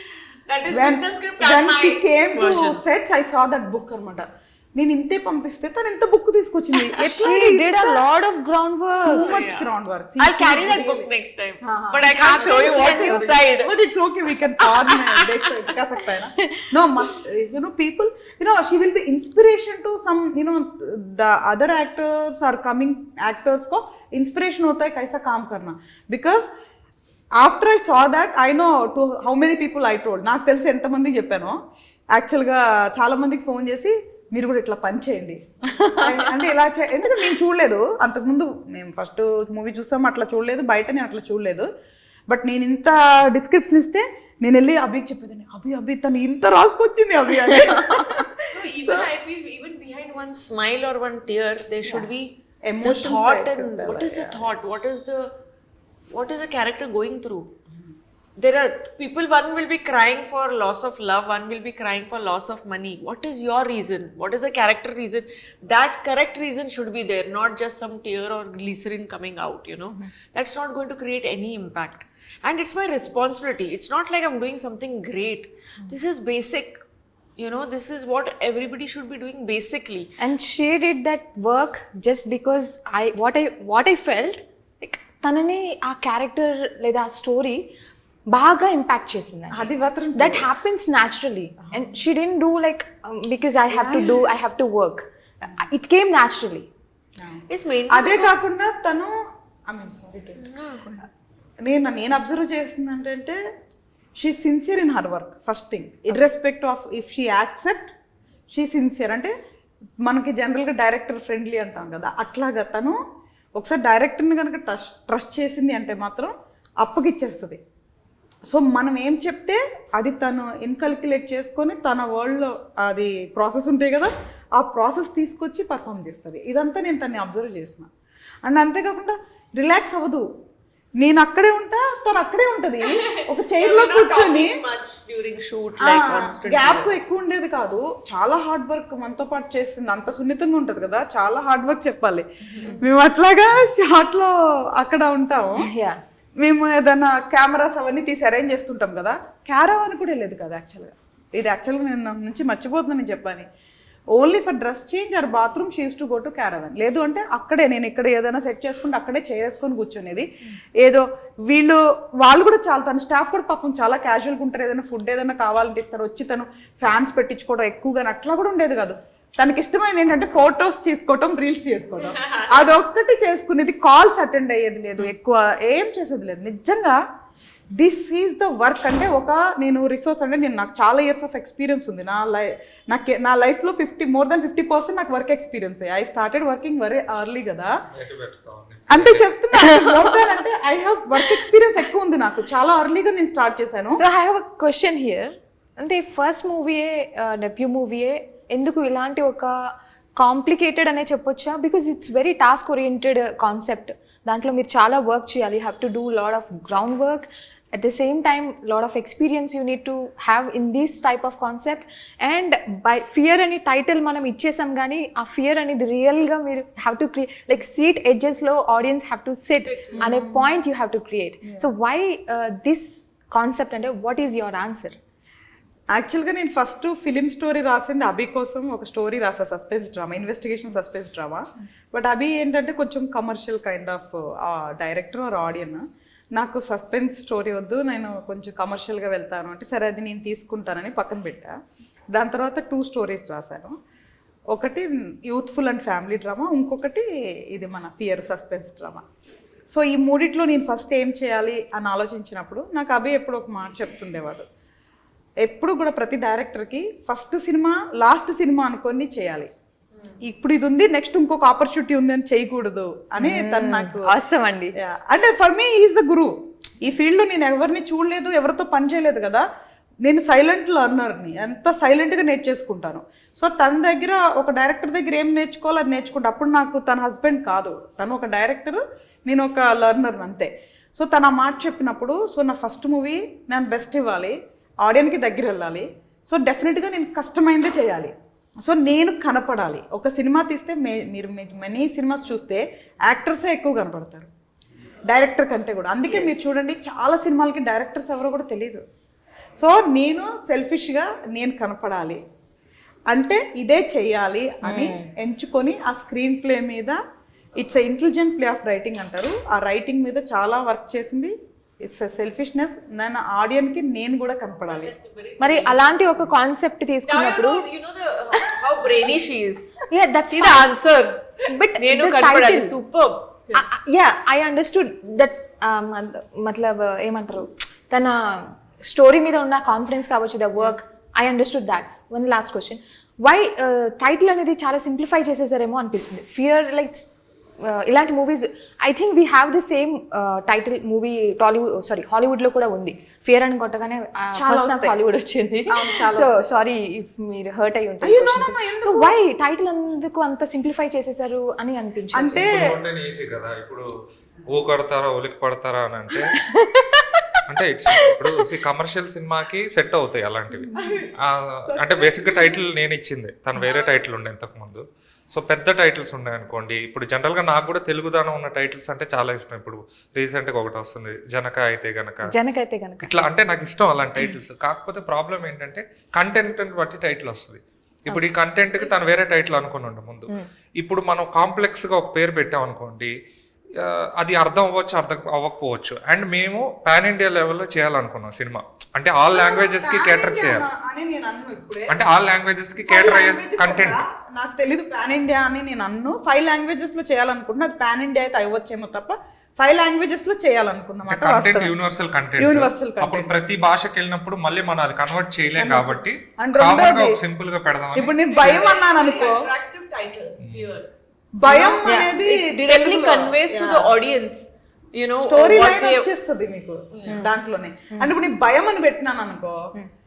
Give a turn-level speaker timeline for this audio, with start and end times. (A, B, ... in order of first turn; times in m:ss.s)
0:00.5-0:02.8 A
0:00.7-0:08.0 B
0:06.7-0:07.3 A
0:07.1-0:09.3 C
0:09.0-0:11.1 B
0:09.2-0:13.7 A
0:11.6-0:26.5 B
0:12.1-0:13.4 C
0:14.6-0:15.7 A
0:16.4-0:16.7 C
0:27.4-0:31.6 B
0:32.1-0:41.7 B
0:42.3-0:49.1 B
0:48.5-0:52.3 A
0:52.7-0:54.5 B
0:52.8-0:55.3 A
0:56.1-0:57.5 A
0:58.4-1:16.8 A
1:17.4-1:20.1 A
1:20.2-1:27.7 C
1:28.3-1:36.7 C
1:29.5-1:30.5 B
1:33.7-1:34.2 B
1:37.2-1:39.2 B
1:37.5-1:38.4 A
1:39.7-1:41.0 B
1:40.4-1:40.9 A
1:41.6-1:43.4 B
1:44.2-1:47.9 B
1:48.5-1:49.3 B
1:50.0-1:53.0 B
1:53.6-1:57.6 B
1:58.5-2:07.9 B
2:08.4-2:10.3 B
2:11.0-2:14.6 B
2:12.8-2:17.0 A
2:15.8-2:25.7 B
2:25.6-2:26.0 C
2:26.4-2:33.5 B
2:34.1-2:40.3 B
2:40.8-2:57.0 B
2:52.0-2:52.8 A
2:57.8-3:07.7 B
3:07.9-3:09.3 D
3:08.9-3:14.0 B
3:09.6-3:10.2 C
3:14.0-3:45.0 C
3:39.6-3:40.1 A
3:40.0-3:40.5 B
3:45.9-4:01.5 B
4:02.1-4:03.8 B
4:04.5-4:09.0 B
4:09.7-4:14.5 B
4:15.4-4:19.5 B
4:20.2-4:24.1 B
4:23.2-4:24.8 C
4:24.8-4:29.5 B
4:30.0-4:54.3 B
4:55.1-4:58.8 B
4:59.6-5:02.2 B
5:03.1-5:07.0 B
5:04.6-5:05.1 C
5:07.6-5:14.9 B
5:14.7-5:15.8 A
5:15.4-5:17.6 C
5:17.1-5:19.8 A
5:19.9-5:20.7 C
5:20.3-5:21.3 A
5:21.4-5:22.7 C
5:21.8-5:23.3 A
5:23.5-5:52.5 C
5:44.4-5:45.0 B
5:45.7-5:46.3 B
5:48.0-5:49.1 B
5:52.1-5:52.8 B
5:52.4-5:53.9 D
5:54.5-5:56.3 D
5:56.4-5:57.4 C
5:57.5-6:12.3 D
6:00.8-6:01.1 B
6:01.7-6:02.6 B
6:12.3-6:13.2 C
6:13.0-6:23.1 D
6:23.8-6:30.7 D
6:29.3-6:32.0 B
6:31.9-6:34.0 D
6:32.9-6:41.7 B
6:41.1-6:48.1 D
6:42.4-6:43.3 B
6:45.6-6:47.2 B
6:47.9-6:49.4 B
6:48.1-6:50.9 A
6:50.4-6:50.8 D
6:51.4-6:53.9 B
6:51.4-6:56.1 A
6:51.8-6:52.2 C
6:55.2-6:59.7 B
6:56.9-6:57.3 A